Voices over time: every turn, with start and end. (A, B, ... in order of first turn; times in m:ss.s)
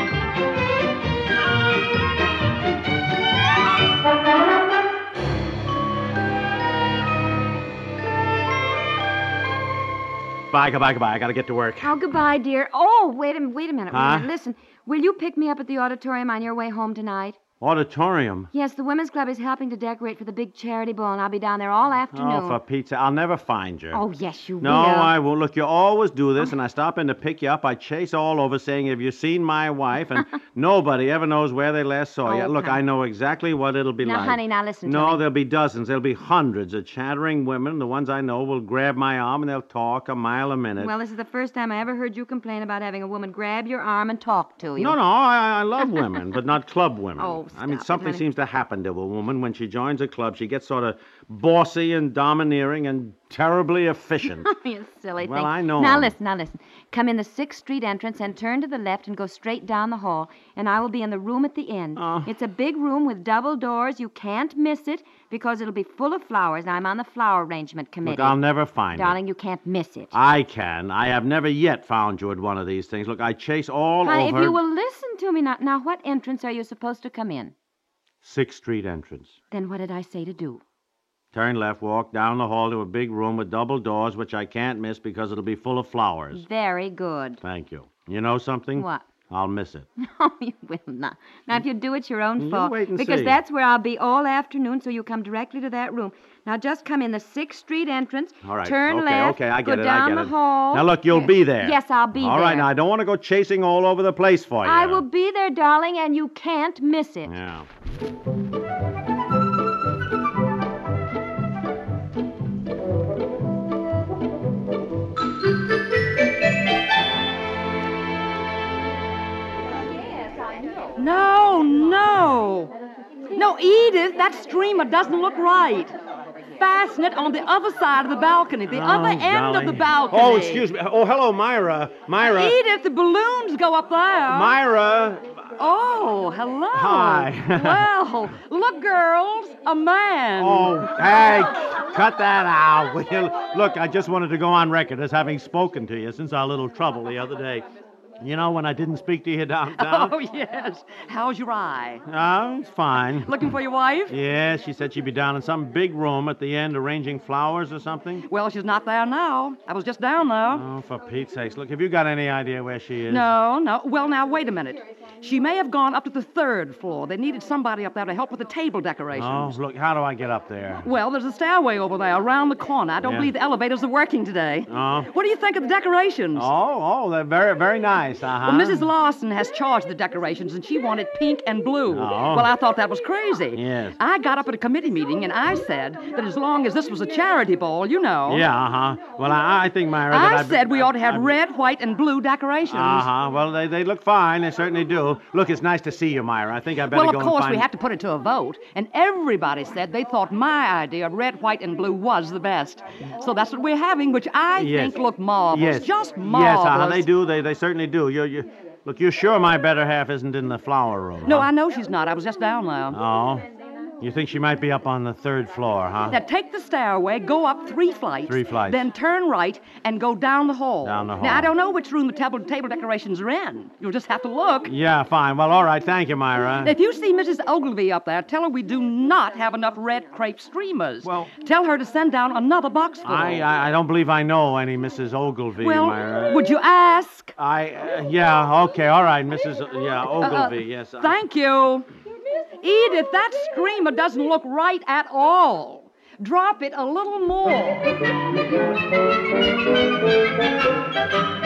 0:10.5-0:12.0 A
0:11.8-0:17.4 B
0:13.9-0:14.3 A
0:17.6-0:18.5 A
0:18.5-0:22.6 B
0:22.1-0:24.0 A
0:23.9-0:25.1 B
0:24.6-0:40.9 A
0:32.2-0:32.8 B
0:34.0-0:35.2 B
0:40.8-0:45.0 B
0:44.8-0:54.5 A
0:47.2-0:48.2 B
0:54.2-1:08.4 B
0:55.2-0:56.2 A
1:02.0-1:02.3 A
1:08.0-1:09.2 A
1:08.9-1:10.1 B
1:10.1-1:14.6 A
1:14.0-1:17.5 B
1:18.2-1:19.4 A
1:19.5-1:20.6 B
1:21.3-1:26.4 A
1:26.3-1:27.4 B
1:27.4-1:29.9 A
1:28.8-1:29.1 B
1:30.0-1:42.7 B
1:32.4-1:33.4 A
1:38.4-1:45.0 A
1:44.6-1:47.3 B
1:47.2-1:47.7 A
2:01.0-2:02.7 C
2:03.3-2:06.0 C
2:06.6-2:10.7 C
2:08.7-2:12.6 A
2:12.2-2:14.6 C
2:14.3-2:15.4 A
2:15.6-2:21.3 C
2:16.7-2:17.9 A
2:20.4-2:27.6 A
2:28.2-2:30.2 A
2:29.7-2:32.0 C
2:32.1-2:33.3 A
2:33.2-2:34.2 C
2:34.1-2:38.2 A
2:38.3-2:40.6 C
2:40.5-2:43.3 A
2:43.1-2:49.6 C
2:49.1-2:50.9 A
2:50.8-2:56.5 C
2:53.0-2:53.3 A
2:54.7-2:55.1 A
2:56.4-2:58.8 A
2:58.4-3:08.4 C
3:01.9-3:02.5 A
3:03.5-3:04.0 A
3:08.3-3:11.4 A
3:10.1-3:13.1 C
3:12.7-3:17.7 A
3:16.8-3:27.1 C
3:24.6-3:31.5 A
3:31.2-3:33.0 C
3:32.9-3:33.4 A
3:34.0-3:36.2 A
3:36.1-3:44.8 C
3:38.3-3:38.9 A
3:40.8-3:41.5 A
3:44.6-3:46.8 A
3:46.6-3:53.4 C
3:51.0-3:51.3 A
3:53.0-3:56.4 A
3:55.6-3:57.3 C
3:57.4-4:01.2 A
4:00.2-4:01.9 C
4:02.6-4:07.9 C